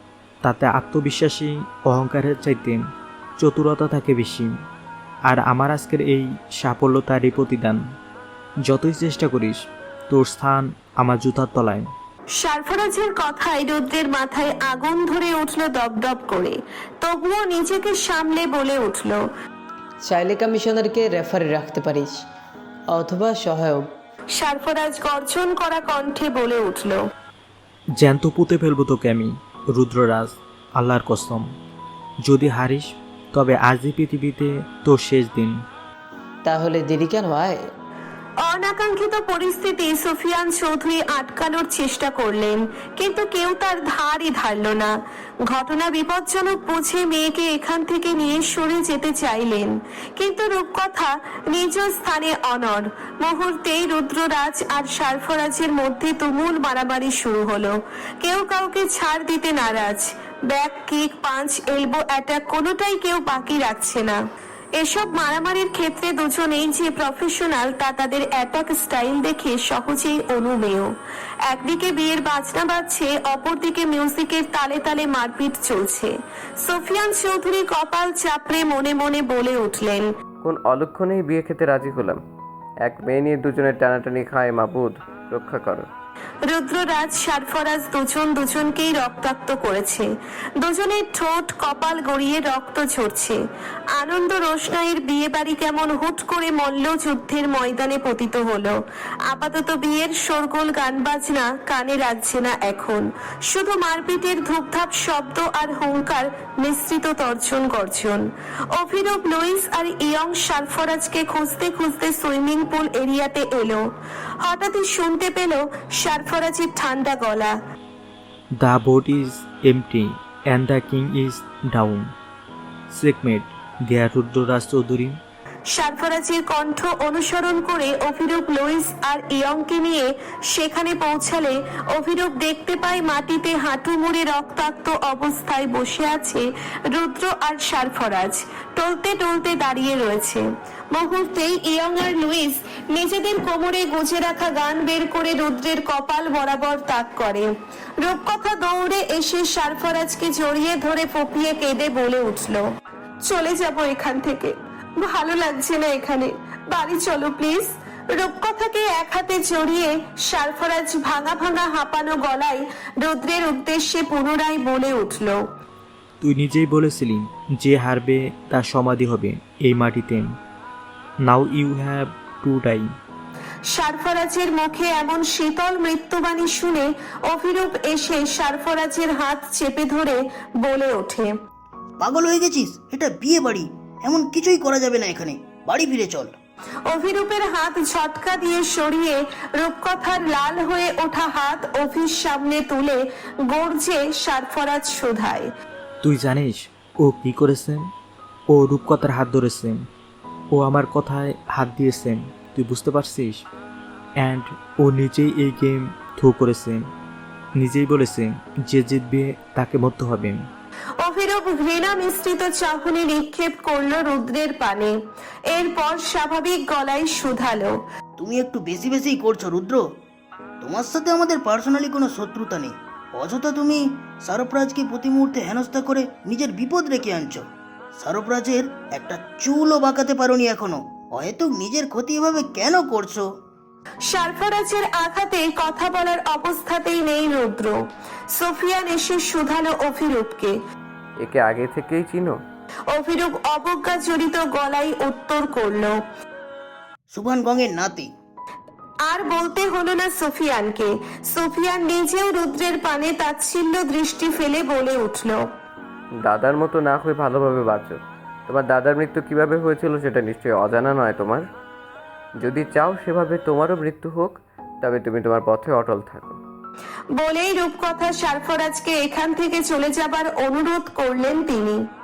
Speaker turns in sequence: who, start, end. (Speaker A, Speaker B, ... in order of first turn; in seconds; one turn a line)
Speaker A: 0.4-2.9
Speaker A: 3.4-4.6
Speaker A: 5.2-7.8
Speaker A: 8.6-11.9
Speaker B: 12.3-19.2
Speaker C: 20.0-22.2
Speaker C: 22.9-23.9
Speaker B: 24.3-27.0
Speaker A: 27.9-31.5
Speaker A: 32.2-35.6
Speaker C: 36.4-37.6
Speaker B: 38.4-44.9
Speaker B: 45.5-64.2
Speaker B: 64.8-70.9
Speaker B: 71.5-80.1
Speaker D: 80.4-82.2
Speaker D: 82.8-85.9
Speaker B: 86.5-93.4
Speaker B: 94.0-113.9
Speaker B: 114.4-117.5
Speaker A: 118.6-122.1
Speaker A: 122.9-125.2
Speaker B: 125.7-152.7
Speaker B: 153.2-165.4
Speaker A: 166.2-170.4
Speaker A: 171.2-172.9
Speaker B: 173.7-181.3
Speaker E: 182.0-186.3
Speaker B: 186.9-195.5
Speaker A: 196.0-197.9
Speaker A: 198.5-199.8
Speaker A: 200.5-203.4
Speaker A: 204.2-206.9
Speaker A: 207.6-210.5
Speaker B: 211.0-214.9
Speaker B: 215.5-217.8
Speaker E: 218.2-219.8
Speaker E: 220.6-233.2
Speaker B: 234.0-237.8
Speaker B: 238.3-240.6
Speaker D: 241.2-242.4
Speaker B: 242.9-246.0
Speaker E: 247.1-248.1
Speaker B: 249.1-255.4
Speaker D: 256.2-261.4
Speaker D: 262.4-266.4
Speaker B: 267.1-271.8